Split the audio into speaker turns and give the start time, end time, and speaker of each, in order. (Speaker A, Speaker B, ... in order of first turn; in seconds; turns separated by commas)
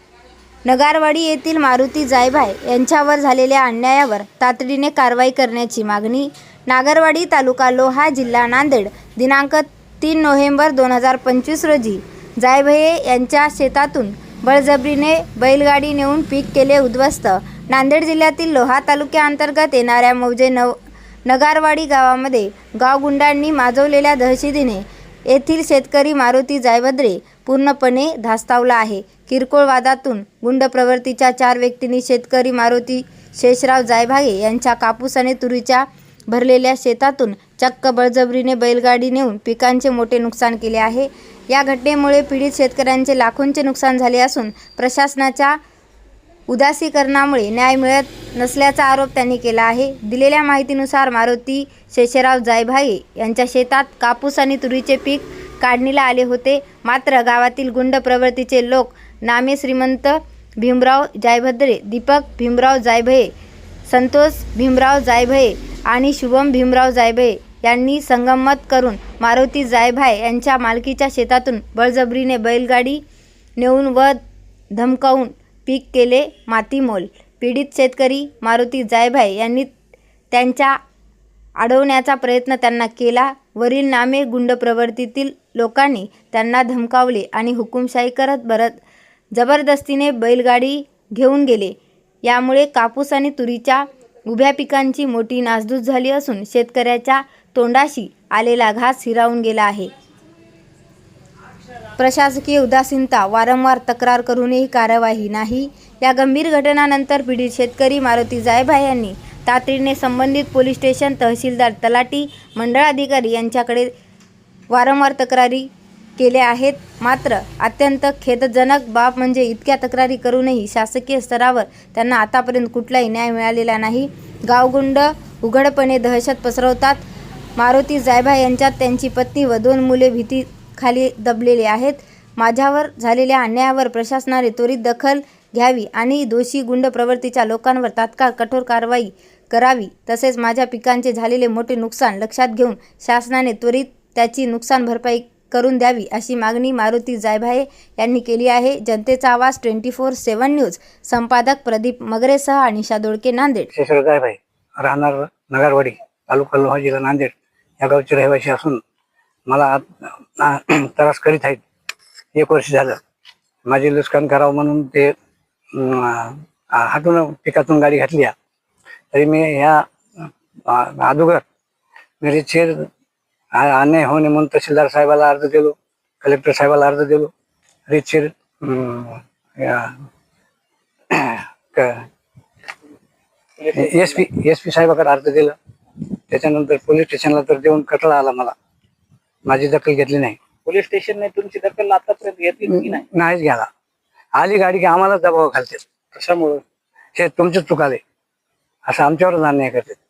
Speaker A: 0.6-45.6, Speaker A: 46.5-63.3, Speaker A: 63.9-73.0, Speaker A: 73.6-74.2, Speaker A: 74.7-79.7, Speaker A: 80.3-80.8, Speaker A: 81.6-88.8, Speaker A: 89.3-99.9, Speaker A: 102.0-113.9, Speaker A: 114.7-153.7, Speaker B: 153.7-158.8, Speaker B: 159.5-161.6, Speaker B: 162.3-163.0, Speaker B: 163.7-165.1, Speaker B: 165.7-168.3, Speaker B: 169.1-171.4, Speaker B: 172.2-172.9, Speaker B: 173.5-177.3, Speaker B: 177.9-180.0, Speaker B: 181.1-182.1, Speaker C: 183.6-184.2, Speaker B: 183.7-185.6, Speaker B: 186.3-188.5, Speaker B: 189.4-190.4, Speaker C: 190.6-193.0, Speaker B: 192.7-193.7, Speaker B: 194.3-195.8, Speaker C: 196.2-196.6, Speaker B: 197.1-198.0, Speaker B: 198.8-200.0